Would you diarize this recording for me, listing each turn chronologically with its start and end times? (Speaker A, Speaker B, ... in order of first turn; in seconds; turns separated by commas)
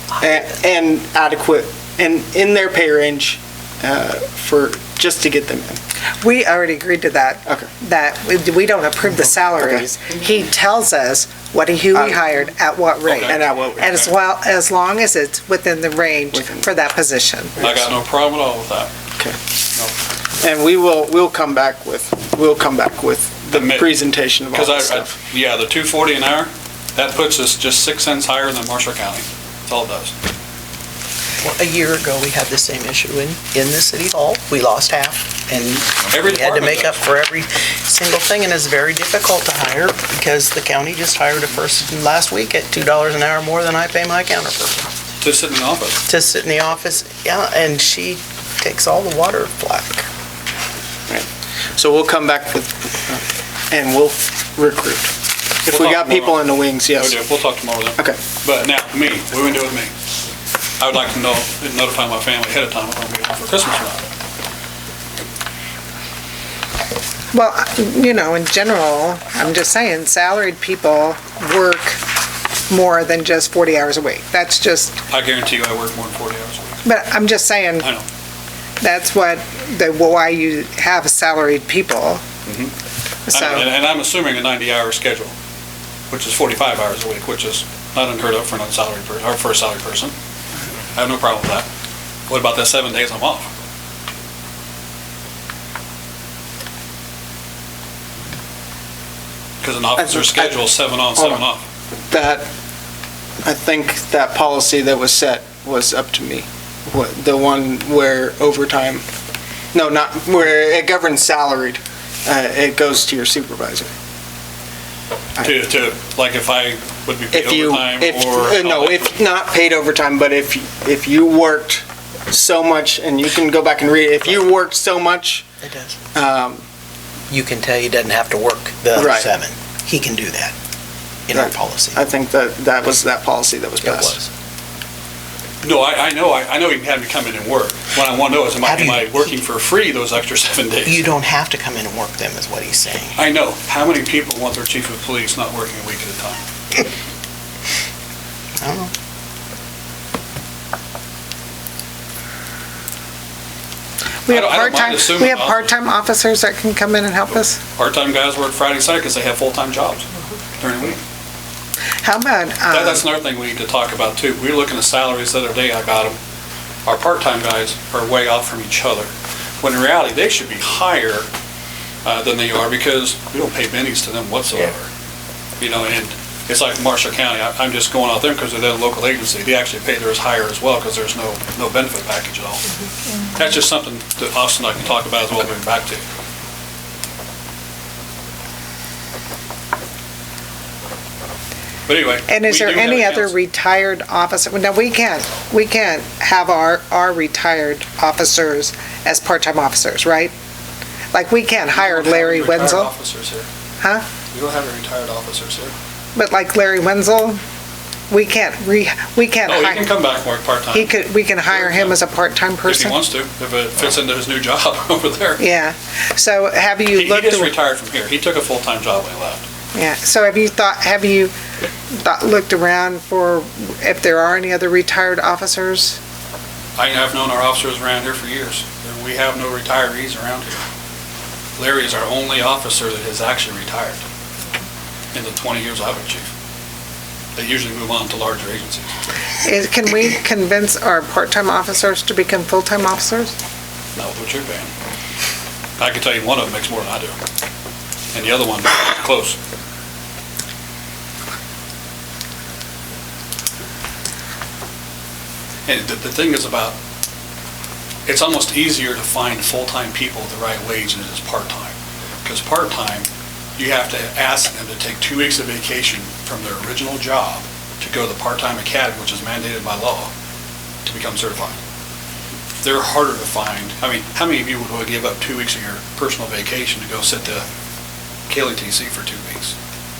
Speaker A: 0.1-5.8, Speaker B: 6.2-17.6, Speaker A: 9.1-9.8, Speaker A: 11.9-12.4, Speaker C: 13.0-14.1, Speaker A: 13.2-13.9, Speaker A: 16.3-16.7, Speaker A: 17.6-17.9, Speaker C: 17.6-18.9, Speaker A: 20.4-25.1, Speaker C: 23.5-30.1, Speaker D: 31.4-44.9, Speaker C: 36.1-37.0, Speaker C: 45.2-46.0, Speaker D: 46.1-50.0, Speaker A: 51.1-57.2, Speaker C: 55.7-59.9, Speaker C: 60.8-64.0, Speaker B: 67.3-72.0, Speaker B: 72.7-75.0, Speaker C: 75.1-76.8, Speaker B: 76.8-77.9, Speaker C: 77.8-78.0, Speaker B: 78.8-82.2, Speaker C: 82.5-82.7, Speaker B: 83.3-83.7, Speaker C: 83.3-85.3, Speaker C: 86.1-90.1, Speaker C: 90.9-91.7, Speaker C: 92.3-93.5, Speaker C: 99.6-101.6, Speaker A: 100.0-100.6, Speaker A: 101.1-101.4, Speaker A: 102.1-102.5, Speaker A: 103.4-109.0, Speaker A: 109.7-113.9, Speaker C: 115.4-119.2, Speaker A: 117.3-125.5, Speaker D: 125.6-126.0, Speaker A: 126.1-126.6, Speaker D: 127.3-130.5, Speaker A: 128.9-129.3, Speaker D: 131.3-132.0, Speaker A: 131.3-134.2, Speaker D: 133.8-134.3, Speaker C: 135.6-141.1, Speaker D: 138.6-139.3, Speaker D: 140.8-143.2, Speaker C: 143.2-146.4, Speaker D: 148.6-148.9, Speaker B: 154.2-157.6, Speaker C: 154.3-155.7, Speaker C: 157.7-161.0, Speaker B: 162.0-163.0, Speaker C: 162.7-166.2, Speaker C: 166.8-171.3, Speaker C: 172.0-174.9, Speaker C: 175.6-182.7, Speaker C: 183.3-186.0, Speaker C: 191.9-193.3, Speaker B: 192.3-200.3, Speaker B: 201.1-202.9, Speaker C: 201.7-203.5, Speaker B: 203.8-204.1, Speaker C: 204.3-205.7, Speaker B: 206.2-207.4, Speaker B: 208.1-209.9, Speaker C: 209.4-212.0, Speaker B: 210.7-213.0, Speaker C: 212.6-215.4, Speaker B: 215.4-217.5, Speaker C: 216.9-219.4, Speaker B: 219.7-221.3, Speaker B: 222.0-226.0, Speaker C: 226.8-230.6, Speaker C: 231.6-234.0, Speaker C: 235.1-236.3, Speaker C: 237.3-238.9, Speaker B: 239.4-243.3, Speaker C: 243.9-244.7, Speaker C: 245.8-247.2, Speaker C: 248.1-249.4, Speaker C: 255.7-256.8, Speaker C: 258.1-270.1, Speaker C: 270.8-271.6, Speaker C: 272.6-277.4, Speaker C: 278.3-279.5